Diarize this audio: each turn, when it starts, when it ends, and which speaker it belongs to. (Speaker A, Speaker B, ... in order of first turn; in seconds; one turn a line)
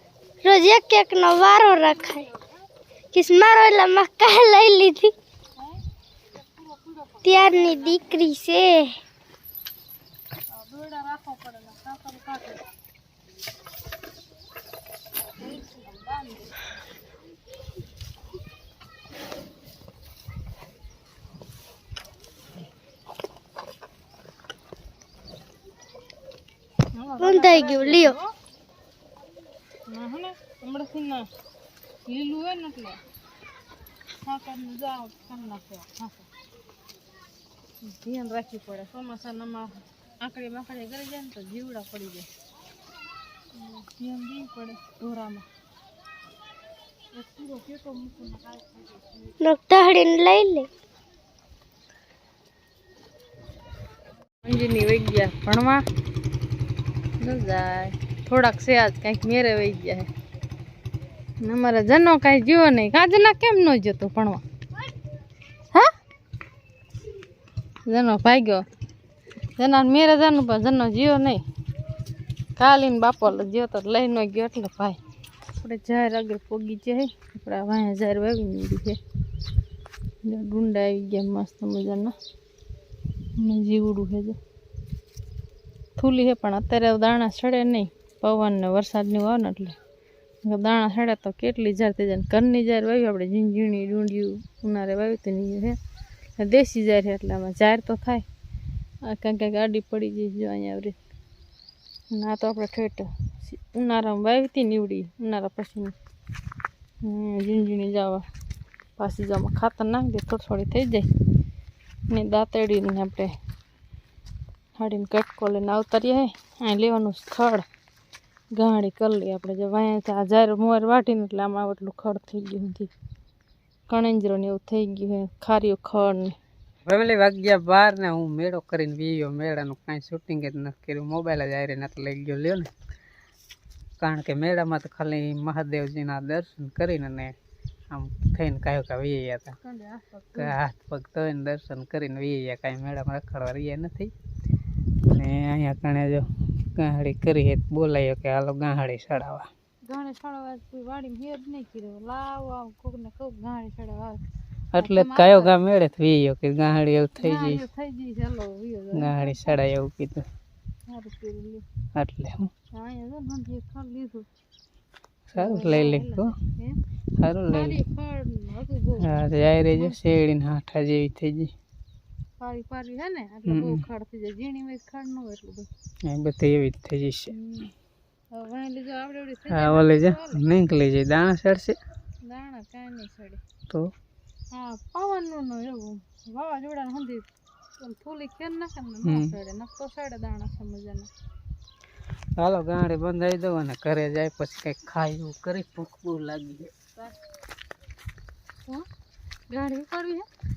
Speaker A: 0.4-2.3
Speaker A: 3.1-5.1
Speaker B: 6.3-8.2
Speaker A: 7.2-9.0
Speaker B: 10.5-12.7
Speaker B: 15.4-16.6
Speaker B: 26.9-28.2
Speaker A: 27.2-28.1
Speaker B: 29.9-31.3
Speaker B: 32.1-33.0
Speaker B: 34.2-36.3
Speaker B: 37.8-42.3
Speaker B: 43.5-45.5
Speaker B: 47.1-49.3
Speaker A: 49.4-50.7
Speaker B: 54.4-55.8
Speaker B: 57.2-60.1
Speaker B: 61.4-64.4
Speaker B: 67.9-68.7
Speaker B: 69.6-71.4
Speaker B: 72.6-75.0
Speaker B: 75.6-79.0
Speaker B: 80.2-82.1
Speaker B: 83.3-84.4
Speaker B: 86.0-89.8
Speaker B: 90.4-95.8
Speaker B: 96.4-98.2
Speaker B: 99.0-101.0
Speaker B: 102.1-105.9
Speaker B: 107.0-108.2
Speaker B: 109.0-111.1
Speaker B: 112.1-113.3
Speaker B: 114.8-117.6
Speaker B: 118.5-122.9
Speaker B: 123.9-126.4
Speaker C: 126.8-132.7
Speaker C: 134.0-137.3
Speaker C: 137.9-139.5
Speaker B: 139.6-140.6
Speaker C: 140.3-144.1
Speaker C: 145.1-149.5
Speaker B: 149.8-154.2
Speaker C: 154.7-157.6
Speaker B: 154.8-155.5
Speaker B: 157.2-159.6
Speaker C: 158.9-160.2
Speaker B: 160.9-161.6
Speaker C: 161.9-162.5
Speaker B: 162.7-164.3
Speaker C: 165.3-166.3
Speaker B: 165.3-166.8
Speaker C: 167.2-167.8
Speaker B: 167.5-170.0
Speaker C: 169.0-171.5
Speaker B: 172.4-175.7
Speaker C: 173.5-173.8
Speaker C: 176.1-177.3
Speaker B: 177.3-177.7
Speaker B: 178.3-180.4
Speaker C: 179.5-181.8
Speaker B: 182.2-183.4
Speaker B: 184.5-187.3
Speaker B: 187.8-191.1
Speaker C: 189.0-189.3
Speaker C: 192.4-196.7
Speaker B: 199.5-200.3